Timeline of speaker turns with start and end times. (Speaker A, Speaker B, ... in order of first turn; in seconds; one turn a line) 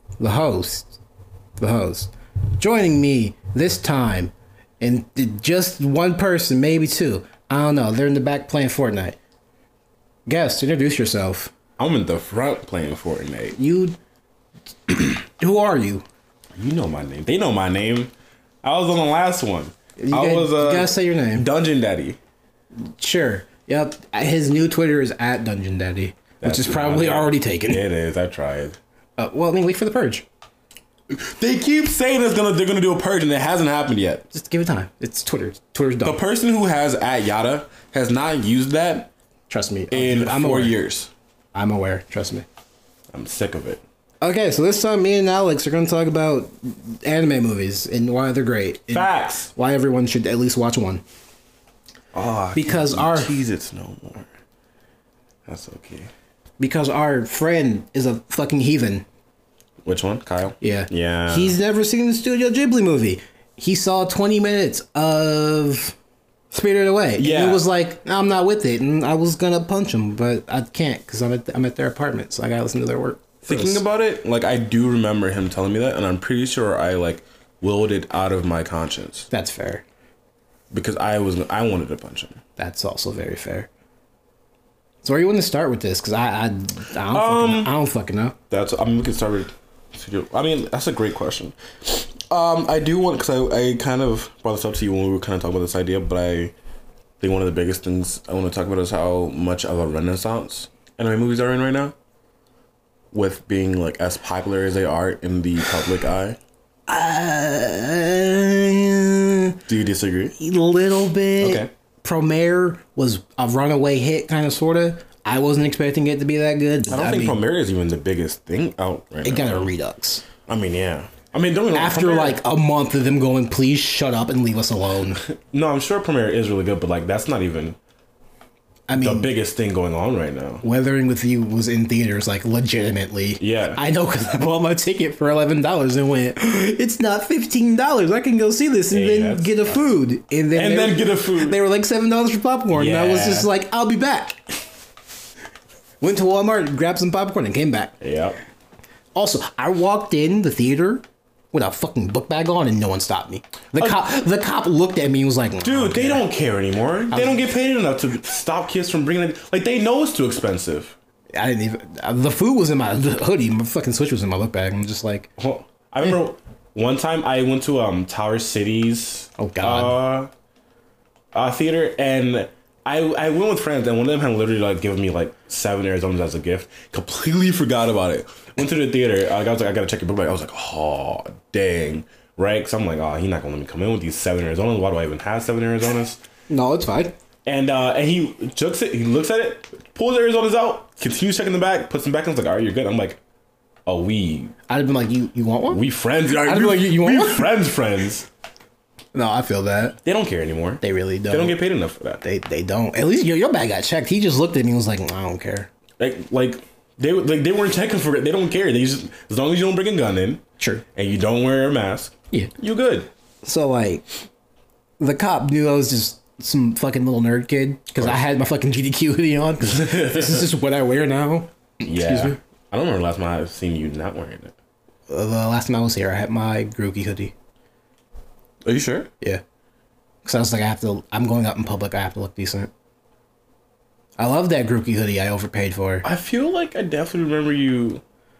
Speaker A: 0.2-1.0
Speaker A: 1.6-9.2
Speaker A: 10.2-11.5
Speaker B: 11.8-13.6
Speaker A: 13.6-14.0
Speaker A: 14.9-16.0
Speaker B: 16.5-18.1
Speaker B: 18.6-22.2
Speaker A: 20.0-21.4
Speaker A: 22.9-27.8
Speaker B: 26.4-28.8
Speaker A: 29.2-30.2
Speaker B: 31.1-34.2
Speaker A: 34.3-36.2
Speaker B: 36.0-39.1
Speaker A: 39.5-40.8
Speaker B: 39.9-41.1
Speaker A: 41.5-42.5
Speaker B: 43.1-43.8
Speaker A: 44.2-51.0
Speaker B: 48.9-49.5
Speaker B: 52.1-54.3
Speaker A: 52.5-53.4
Speaker B: 55.5-56.1
Speaker A: 56.6-59.0
Speaker B: 59.8-61.5
Speaker A: 60.6-65.9
Speaker A: 66.5-73.8
Speaker B: 67.2-67.6
Speaker B: 73.5-79.3
Speaker A: 79.3-79.8
Speaker B: 80.7-82.4
Speaker A: 82.6-83.7
Speaker A: 85.0-88.3
Speaker B: 87.1-87.7
Speaker B: 88.5-96.5
Speaker B: 97.2-101.9
Speaker B: 103.1-106.4
Speaker A: 106.9-109.6
Speaker B: 109.7-110.3
Speaker A: 110.4-117.4
Speaker B: 111.4-111.7
Speaker B: 116.9-119.7
Speaker A: 119.2-120.2
Speaker B: 120.5-122.4
Speaker A: 121.7-125.2
Speaker B: 125.3-127.8
Speaker A: 128.9-129.3
Speaker B: 128.9-130.6
Speaker A: 130.6-144.6
Speaker B: 133.4-133.8
Speaker B: 138.9-139.8
Speaker B: 140.5-141.6
Speaker B: 142.7-143.5
Speaker A: 146.0-148.0
Speaker B: 148.0-148.4
Speaker A: 149.1-156.2
Speaker B: 153.8-154.0
Speaker B: 155.6-160.9
Speaker A: 157.1-157.4
Speaker A: 161.3-165.3
Speaker B: 165.4-170.3
Speaker A: 169.4-170.0
Speaker B: 171.3-186.2
Speaker A: 186.5-187.1
Speaker B: 187.4-193.2
Speaker B: 193.8-194.5
Speaker A: 194.7-197.5
Speaker B: 195.7-198.3
Speaker A: 199.1-200.0
Speaker B: 200.0-202.2
Speaker A: 200.8-201.6
Speaker A: 202.2-205.7
Speaker B: 206.0-210.4
Speaker A: 210.6-210.8
Speaker B: 210.9-213.1
Speaker A: 213.4-214.0
Speaker A: 215.0-222.4
Speaker B: 219.6-220.5
Speaker B: 221.8-224.5
Speaker A: 225.1-227.3
Speaker B: 228.6-229.1
Speaker A: 230.2-232.7
Speaker A: 234.2-236.1
Speaker B: 236.0-238.0